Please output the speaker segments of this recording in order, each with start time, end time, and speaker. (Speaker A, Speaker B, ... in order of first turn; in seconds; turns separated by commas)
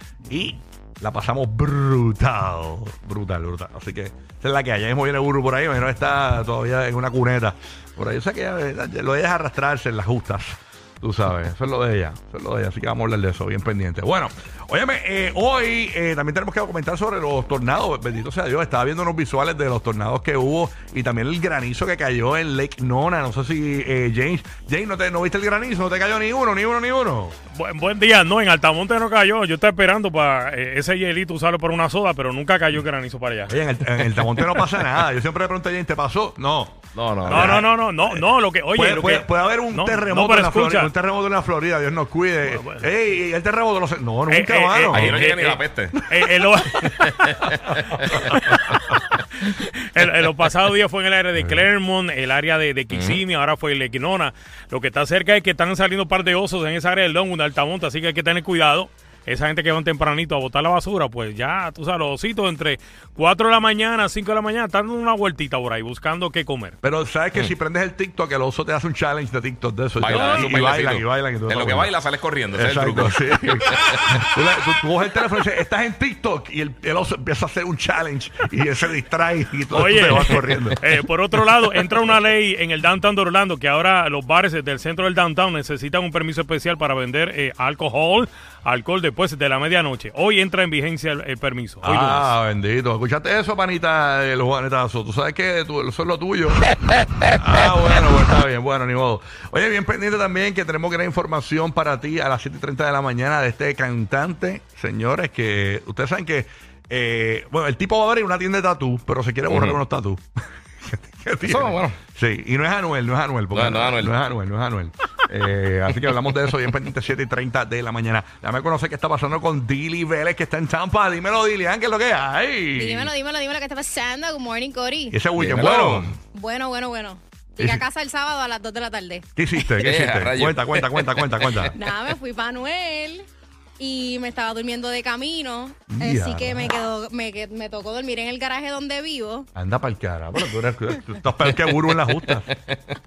Speaker A: 0.3-27.3, Speaker B: 27.5-34.6, Speaker A: 33.5-45.2, Speaker C: 36.9-37.6, Speaker B: 37.2-40.9, Speaker B: 42.5-42.8, Speaker B: 44.3-47.5, Speaker C: 44.9-46.1, Speaker C: 46.8-48.2, Speaker B: 48.1-66.7, Speaker C: 52.9-53.2, Speaker A: 66.8-71.9, Speaker C: 70.0-74.0, Speaker A: 72.5-80.8, Speaker B: 79.7-92.3, Speaker A: 91.8-96.7, Speaker A: 97.2-110.2, Speaker C: 109.5-109.8, Speaker A: 110.8-123.1, Speaker C: 111.4-112.0, Speaker C: 113.5-114.1, Speaker D: 122.7-125.2, Speaker A: 125.1-126.2, Speaker C: 125.3-126.1, Speaker D: 126.3-129.2, Speaker A: 129.3-131.7, Speaker C: 129.8-131.7, Speaker D: 131.7-133.3, Speaker D: 133.8-139.5, Speaker A: 135.9-136.7, Speaker A: 139.5-142.5, Speaker C: 141.7-142.9